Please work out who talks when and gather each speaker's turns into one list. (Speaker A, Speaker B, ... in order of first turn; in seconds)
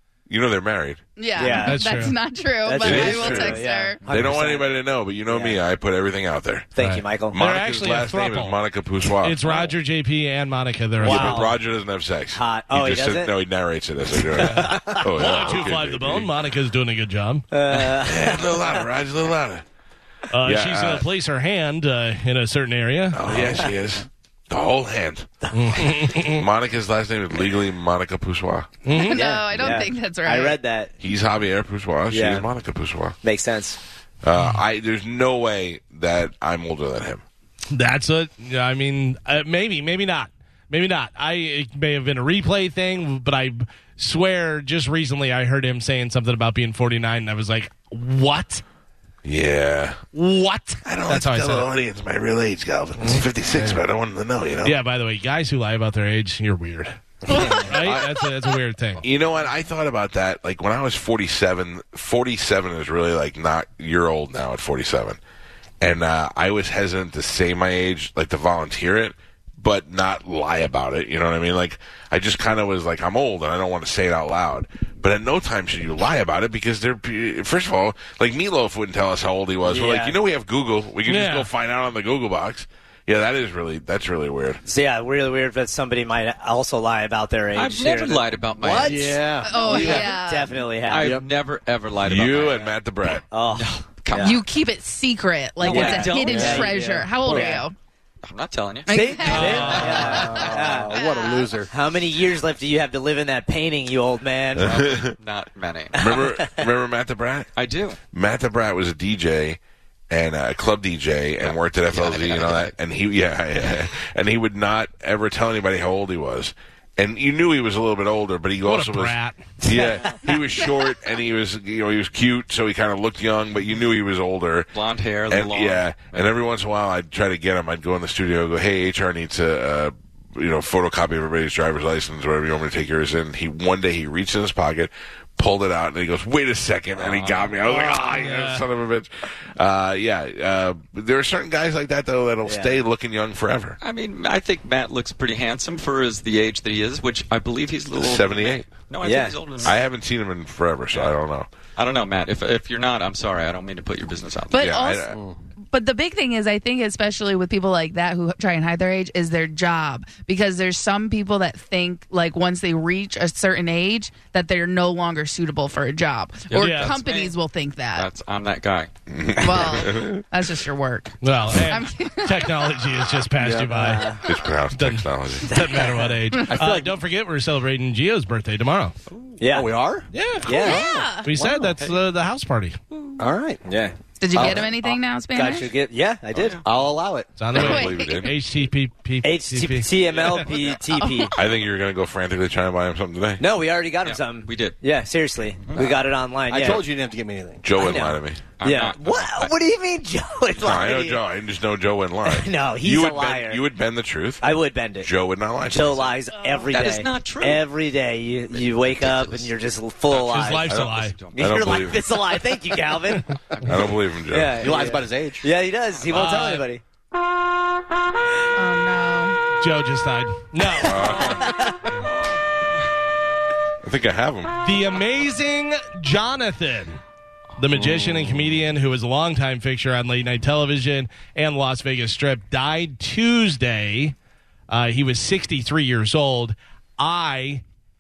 Speaker A: 0.3-1.0, 2.8-6.7, 7.3-9.5, 11.0-16.3, 18.0-19.6, 20.4-21.1, 23.1-25.3, 26.1-28.8, 31.0-33.2, 34.2-37.2, 49.2-50.0, 50.8-54.8, 57.6-58.2, 59.0-65.2, 65.8-84.6, 92.0-93.2, 104.6-105.2, 106.0-107.5, 108.1-109.6, 110.1-124.7, 125.3-143.8, 147.9-148.7, 149.6-151.5, 154.5-155.2, 169.1-170.2, 174.2-175.6, 187.5-188.4, 191.3-193.4, 197.6-198.4, 200.6-206.1, 210.7-212.1, 213.6-214.7, 220.8-221.6, 223.8-224.6
Speaker B: 1.2-4.0, 28.9-30.6, 57.3-57.6, 89.5-90.5, 94.2-97.8, 98.9-100.5, 101.0-101.5, 154.5-155.1, 155.7-168.1, 169.4-172.8, 180.5-181.3, 184.2-185.7, 187.6-188.3, 191.0-191.3, 218.6-219.4
Speaker C: 1.4-1.8, 2.6-5.6, 6.8-7.4, 11.0-11.5, 12.3-13.3, 14.2-15.5, 17.5-18.7, 23.3-23.7, 29.1-30.9, 32.1-32.5, 33.2-33.8, 79.7-80.2, 84.7-91.2, 93.3-94.4, 95.6-97.6, 98.9-101.0, 101.7-104.8, 106.0-106.5, 142.4-142.7, 149.0-149.4, 173.8-174.2, 175.5-176.9, 179.4-179.7, 180.4-180.8, 183.7-186.6, 189.2-191.3, 193.4-196.9, 197.8-201.2, 202.3-203.6, 204.4-205.1, 205.6-210.7, 211.3-213.3, 214.3-216.8, 220.8-221.8
Speaker D: 1.6-2.2, 6.8-8.6, 9.2-11.5, 14.4-17.5, 20.3-23.2, 25.5-26.5, 28.9-29.3, 37.7-48.6, 50.1-51.7, 53.0-53.8, 54.6-59.0, 81.0-81.5, 99.3-100.0, 118.6-119.5, 137.6-138.6, 166.5-167.0, 171.2-174.2, 174.7-179.0, 180.1-182.8, 187.4-189.9, 210.3-211.2, 216.1-216.7, 219.6-221.1, 224.6-227.0, 227.6-234.1, 234.7-237.6
Speaker E: 87.5-89.2, 90.9-92.8, 93.5-94.4, 95.6-96.7, 98.2-100.9, 104.6-106.2, 107.6-108.0, 111.4-112.7, 119.7-120.1, 124.7-126.3, 137.0-137.6, 143.8-149.8, 151.8-154.7, 166.5-167.4, 167.9-168.9, 182.9-183.2, 186.3-186.6, 190.1-190.8, 194.0-194.8, 195.7-196.0, 198.6-199.5, 205.9-207.7, 208.5-209.5, 210.1-212.0, 213.5-214.0, 216.0-216.4
Speaker F: 88.8-90.1, 91.0-91.3, 95.7-96.7, 100.3-101.7, 173.4-173.9, 179.4-180.1, 180.6-181.7, 183.2-183.6, 184.3-184.6, 186.6-187.3, 196.5-197.6, 214.6-215.5